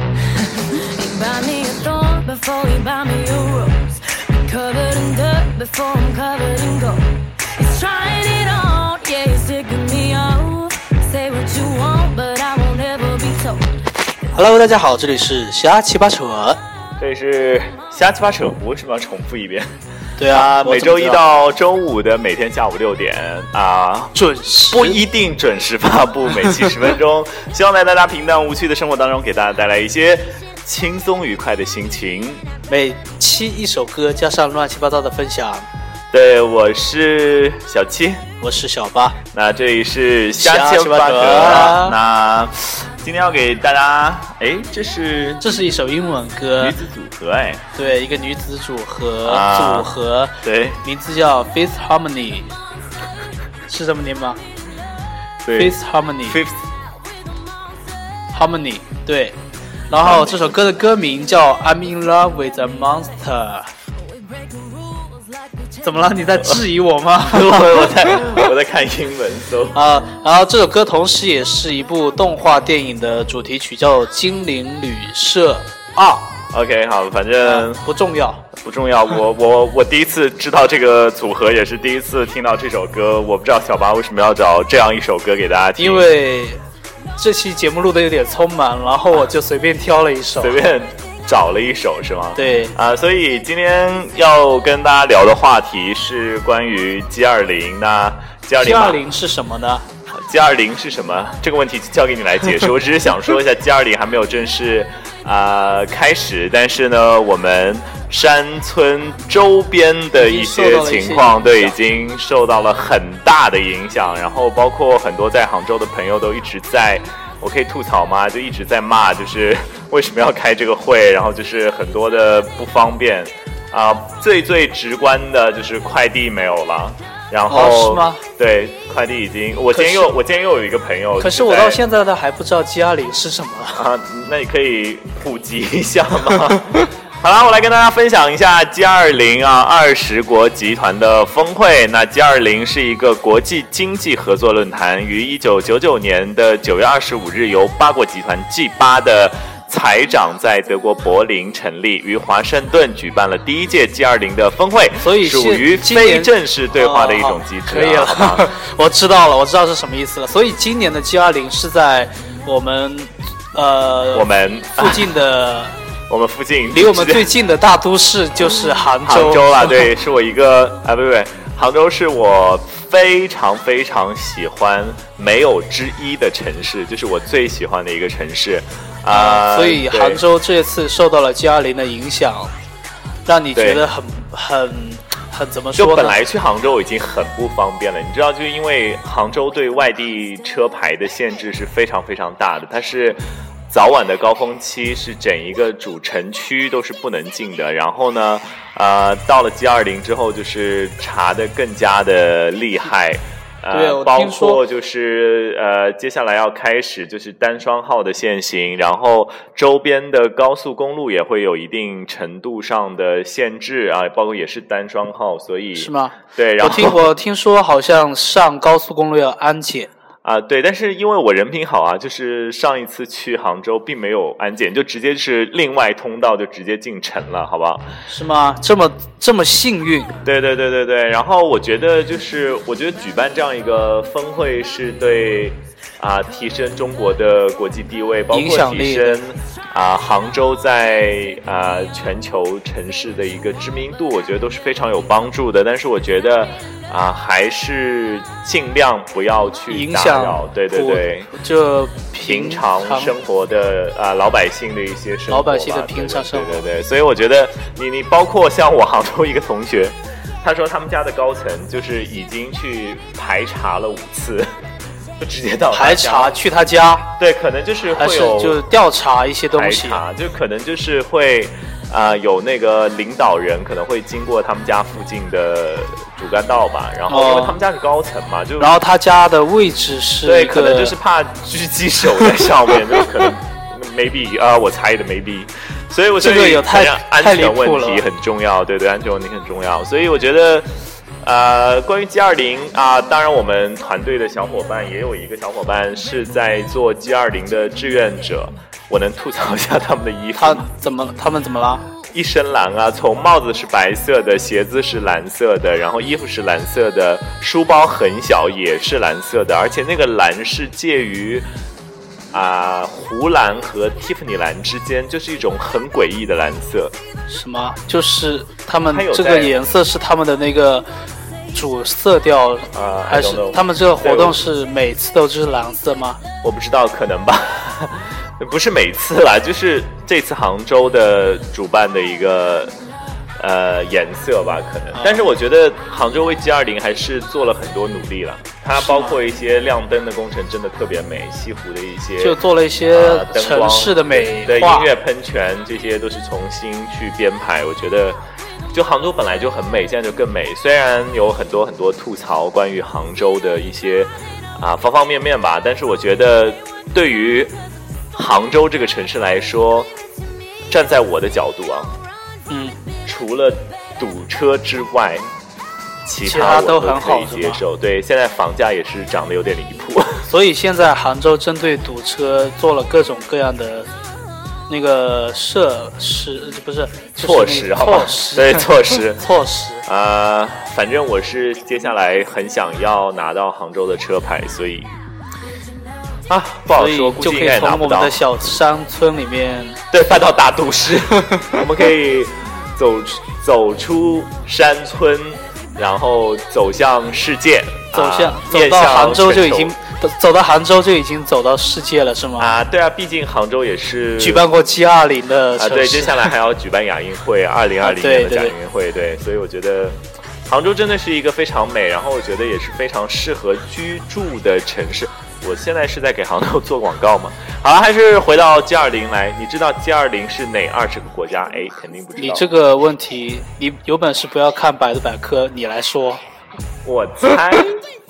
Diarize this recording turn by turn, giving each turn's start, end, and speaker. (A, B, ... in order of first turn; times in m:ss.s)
0:00.5-0:13.7 A
0:14.3-0:16.6 B
0:17.0-0:19.7 C
0:20.2-0:21.2 B
0:20.3-0:24.2 C
0:24.1-0:25.0 B
0:24.7-0:32.4 C
0:32.7-0:35.7 B
0:36.1-0:38.3 C
0:38.4-0:39.2 B
0:39.3-0:45.6 C
0:40.4-0:42.0 B
0:45.4-0:46.8 B
0:46.6-0:47.7 C
0:47.7-0:52.5 B
0:49.2-0:50.8 C
0:53.7-0:54.4 B
0:55.4-0:56.7 C
0:55.6-0:56.4 B
0:58.3-0:59.4 B
0:59.9-1:03.7 B
1:00.0-1:00.6 C
1:04.5-1:05.2 A
1:05.8-1:08.4 B
1:07.2-1:09.8 C
1:09.7-1:16.3 B
1:16.5-1:17.8 C
1:17.4-1:18.4 B
1:18.6-1:26.1 C
1:25.8-1:26.6 B
1:27.2-1:30.6 B
1:30.4-1:39.0 C
1:32.4-1:32.8 B
1:38.6-1:39.9 B
1:40.1-2:11.8 C
1:50.2-1:51.8 B
2:07.5-2:08.2 B
2:09.7-2:10.1 B
2:11.2-2:13.9 B
2:13.8-2:38.6 C
2:35.0-2:45.8 B
2:44.1-2:45.2 C
2:46.1-2:47.3 C
2:46.7-2:49.9 B
2:48.4-3:00.2 C
2:59.1-3:02.5 B
3:03.3-3:06.2 B
3:03.5-3:03.9 C
3:05.8-3:37.1 C
3:23.7-3:24.6 B
3:35.8-3:39.9 B
3:40.2-3:47.9 C
3:48.1-3:50.2 B
3:50.2-4:11.3 C
3:58.3-3:59.2 B
4:09.7-4:13.2 B
4:12.3-4:24.5 C
4:15.3-4:16.7 B
4:25.2-4:26.4 C
4:25.7-4:27.1 B
4:27.2-4:28.6 C
4:27.9-4:30.0 B
4:29.5-4:38.8 C
4:37.1-4:37.6 B
4:38.6-4:40.9 B
4:40.2-4:50.7 C
4:46.2-4:48.0 B
4:51.2-5:00.7 C
5:00.4-5:01.8 B
5:02.1-5:11.5 C
5:12.3-5:17.0 C
5:17.3-5:20.9 B
5:18.9-5:19.6 C
5:21.5-5:26.2 B
5:22.7-5:24.4 C
5:26.4-5:32.8 C
5:33.4-5:48.2 C
5:35.0-5:35.3 B
5:38.8-5:39.2 B
5:42.2-5:44.9 B
5:48.7-5:57.6 C
5:58.1-6:00.0 C
6:00.7-6:02.0 C
6:02.5-6:02.8 B
6:03.1-6:05.3 C
6:06.0-6:10.2 C
6:06.2-6:07.6 B
6:10.3-6:13.9 B
6:14.7-6:19.8 B
6:17.2-6:19.3 C
6:19.9-6:24.9 C
6:26.3-6:28.3 C
6:26.7-6:29.8 B
6:29.9-6:39.8 C
6:37.9-6:42.5 B
6:42.4-6:44.5 C
6:44.2-6:46.3 B
6:45.6-7:02.6 C
6:47.8-6:48.5 B
7:02.2-7:06.2 B
7:06.8-7:07.8 C